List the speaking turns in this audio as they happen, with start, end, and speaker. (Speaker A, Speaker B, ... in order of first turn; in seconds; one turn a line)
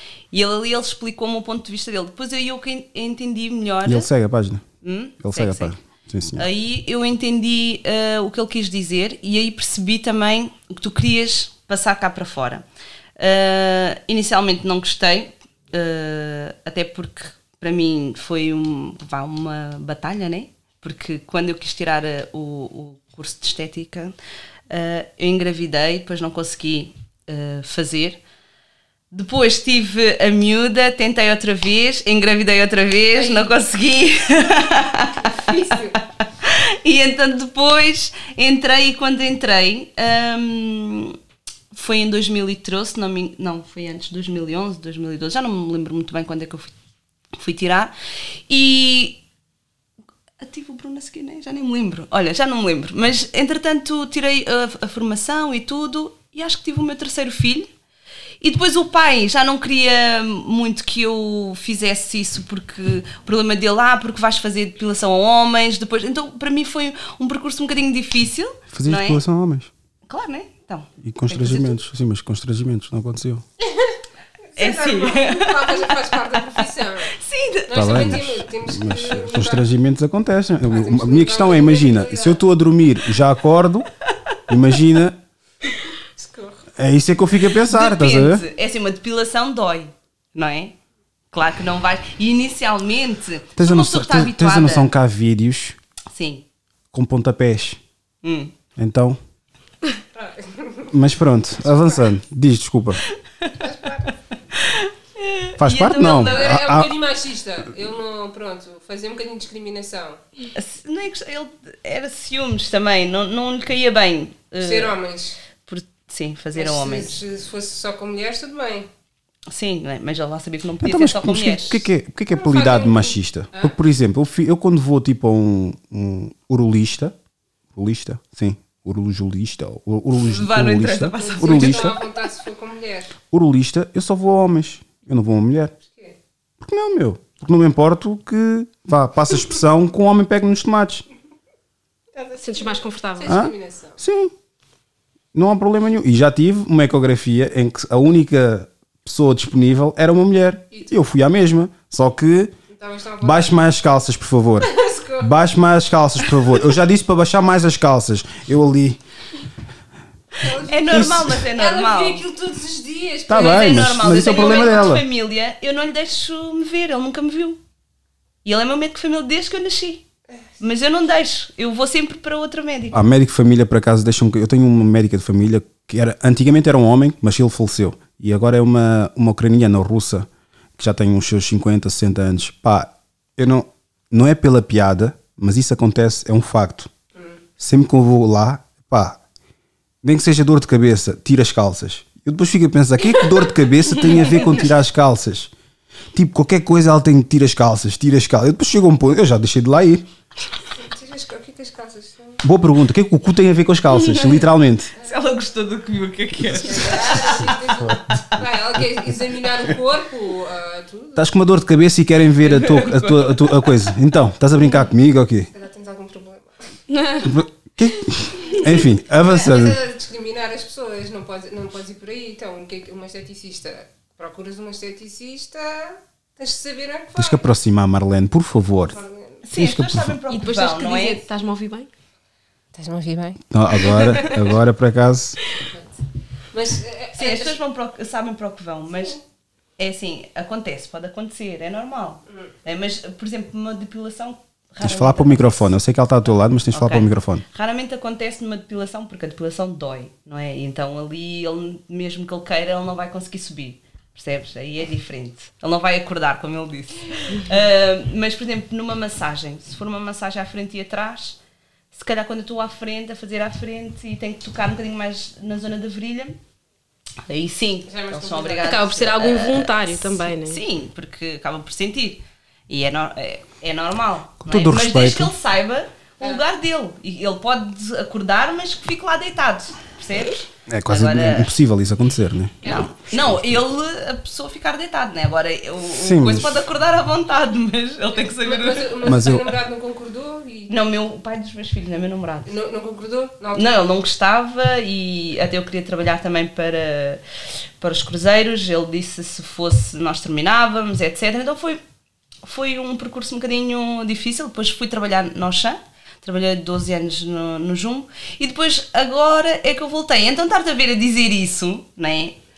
Speaker A: 0.3-4.1
Speaker B: 3.9-4.7
Speaker A: 4.8-5.8
Speaker B: 5.2-6.5
Speaker A: 6.3-12.7
Speaker A: 13.2-24.2
Speaker A: 24.7-28.2
Speaker A: 29.1-41.2
Speaker C: 33.1-33.5
Speaker C: 34.6-36.0
Speaker A: 41.7-46.8
Speaker A: 47.4-47.9
Speaker A: 48.5-49.2
Speaker A: 50.4-57.7
Speaker A: 58.4-69.2
Speaker B: 68.7-69.7
Speaker A: 70.1-71.8
Speaker B: 71.0-73.5
Speaker C: 73.6-74.0
Speaker C: 74.5-77.1
Speaker A: 74.6-78.2
Speaker C: 77.7-79.7
Speaker B: 77.7-83.9
Speaker C: 80.7-82.4
Speaker B: 84.5-85.2
Speaker C: 86.2-86.7
Speaker B: 86.8-88.4
Speaker A: 87.6-90.8
Speaker A: 91.3-94.9
Speaker B: 93.6-95.8
Speaker A: 96.1-96.5
Speaker B: 96.9-97.8
Speaker A: 98.2-98.5
Speaker B: 98.8-99.2
Speaker C: 100.1-101.0
Speaker B: 100.9-103.0
Speaker C: 101.7-102.1
Speaker C: 103.6-104.2
Speaker A: 104.5-106.5
Speaker B: 105.6-106.9
Speaker C: 106.1-110.2
Speaker A: 110.5-114.9
Speaker C: 114.6-115.4
Speaker A: 115.7-117.2
Speaker C: 116.5-118.9
Speaker A: 119.5-121.9
Speaker B: 120.8-127.2
Speaker C: 122.3-123.8
Speaker B: 127.7-132.0
Speaker A: 130.2-131.9
Speaker C: 131.2-133.1
Speaker B: 133.3-135.7
Speaker B: 136.6-141.1
Speaker C: 142.2-144.0
Speaker D: 142.4-143.4
Speaker B: 143.3-144.3
Speaker B: 145.3-152.5
Speaker C: 152.7-153.6
Speaker B: 153.2-159.0
Speaker C: 154.6-155.3
Speaker C: 160.4-164.9
Speaker A: 160.4-162.2
Speaker B: 160.9-161.4
Speaker B: 163.3-165.1
Speaker A: 163.5-167.6
Speaker A: 168.4-170.1
Speaker A: 170.6-173.0
Speaker B: 172.9-186.9
Speaker B: 187.6-189.2
Speaker B: 190.0-195.5
Speaker C: 194.0-194.6
Speaker B: 196.1-200.1
Speaker C: 200.8-202.4
Speaker B: 202.4-204.9
Speaker A: 205.0-207.6
Speaker C: 206.5-211.3
Speaker B: 207.8-209.1
Speaker B: 211.2-215.5
Speaker A: 212.5-213.7
Speaker C: 215.5-216.6
Speaker D: 216.9-217.4
Speaker B: 217.2-219.8
Speaker C: 219.2-227.4
Speaker B: 227.2-229.0
Speaker C: 228.9-229.4
Speaker A: 229.4-231.2
Speaker B: 229.5-230.2
Speaker D: 230.3-231.9
Speaker C: 232.7-233.4
Speaker B: 233.5-235.4
Speaker C: 236.5-237.6
Speaker A: 237.1-239.2
Speaker A: 239.8-245.7
Speaker B: 244.8-247.4
Speaker A: 246.7-261.4
Speaker A: 261.9-266.4
Speaker A: 267.3-281.5
Speaker C: 267.9-268.9
Speaker D: 268.6-270.6
Speaker B: 274.4-275.3
Speaker B: 280.7-283.6
Speaker C: 282.6-282.9
Speaker A: 282.7-289.2
Speaker B: 285.9-286.6
Speaker C: 288.3-290.7
Speaker B: 289.0-289.6
Speaker A: 290.7-292.5
Speaker C: 292.5-293.7
Speaker A: 293.5-297.2
Speaker A: 297.8-301.8
Speaker A: 302.4-312.4